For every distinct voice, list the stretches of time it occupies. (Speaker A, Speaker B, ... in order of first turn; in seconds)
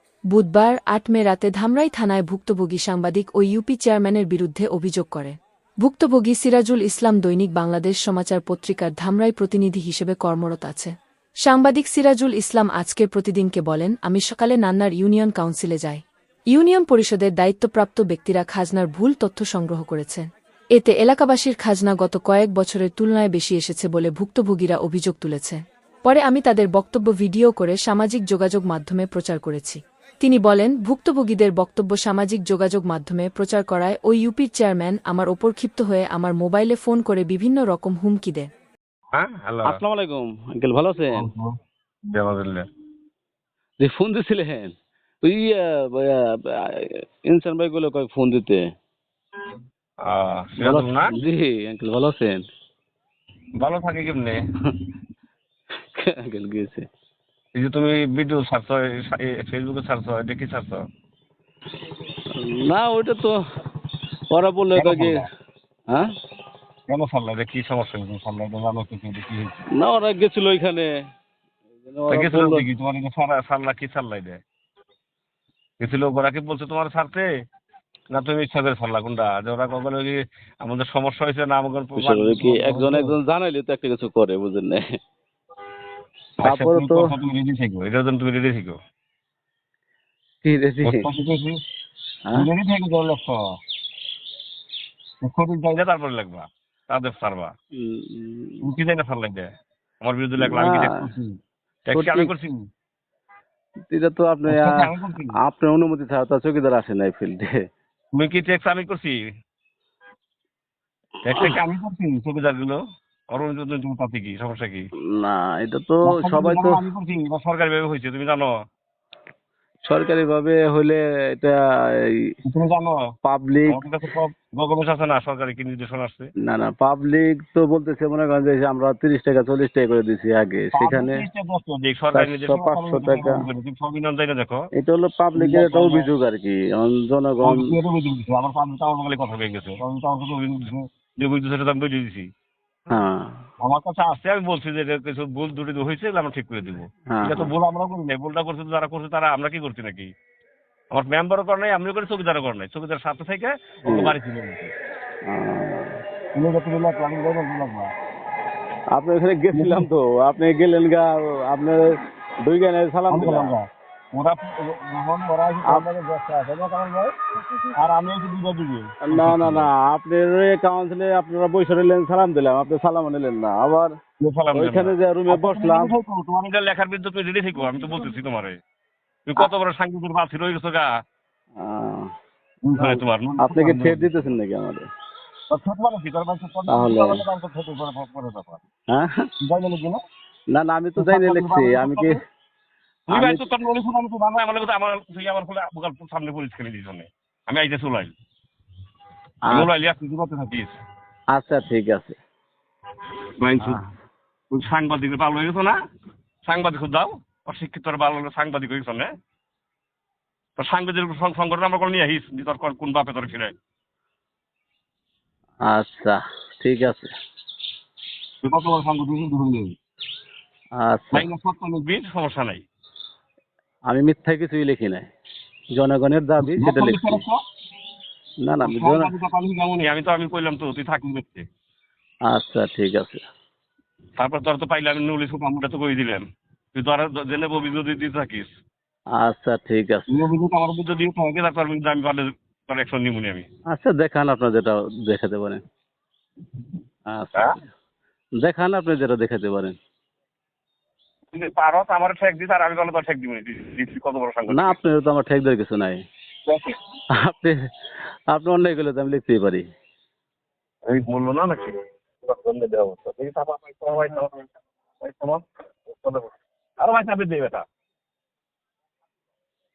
Speaker A: 0.3-10.9, 11.4-38.5
Speaker B: 39.1-39.8, 41.1-41.6, 42.1-42.7, 50.0-51.1, 53.6-54.4, 57.5-60.8, 64.8-65.3, 66.9-69.7, 72.1-74.4, 75.8-77.3, 78.1-83.2, 86.4-88.8, 90.8-91.6, 92.3-93.4, 95.2-97.5, 98.6-99.5, 100.0-102.6, 104.5-105.4, 108.1-109.2, 111.2-112.8, 113.3-114.9, 116.0-118.5, 122.5-123.0, 123.7-126.3, 130.7-134.6, 135.3-136.1, 137.4-142.3, 143.6-150.1, 150.9-154.7, 156.3-157.9, 159.5-159.9, 163.1-167.1, 167.8-169.7, 174.2-178.6, 179.3-180.9, 182.6-184.3, 185.5-188.6, 189.4-190.0, 191.0-192.2, 193.1-198.1, 199.5-200.8, 203.4-203.8, 204.5-205.8, 206.4-209.1, 210.6-213.5, 218.4-219.8, 221.1-222.6, 226.4-227.4, 228.6-231.4, 234.2-236.2, 236.8-238.5, 240.1-243.5, 251.3-254.8, 256.5-256.8, 260.9-264.5, 265.0-267.6
Speaker C: 39.6-41.3, 43.8-44.7, 45.2-48.7, 50.6-52.5, 55.9-56.9, 62.4-63.4, 64.3-65.3, 69.7-70.9, 71.8-72.7, 82.0-84.9, 86.4-87.2, 90.4-91.1, 97.8-98.6, 100.4-101.0, 101.9-102.3, 103.9-107.6, 115.2-116.8, 119.9-122.3, 123.2-123.8, 126.4-131.2, 132.1-133.4, 134.7-137.7, 142.9-143.3, 147.1-147.5, 153.9-154.1, 155.3-156.0, 158.9-163.5, 169.1-173.9, 174.5-175.9, 181.6-182.1, 182.8-184.9, 186.7-187.2, 188.9-189.3, 190.5-192.2, 193.1-193.4, 201.3-202.2, 203.6-203.9, 215.7-217.1, 220.8-221.3, 223.9-225.1, 225.8-227.2, 228.4-229.1, 232.3-233.2, 239.2-240.1, 243.7-245.6, 247.1-247.6, 248.4-249.8, 254.5-256.0, 257.2-257.7, 258.3-259.7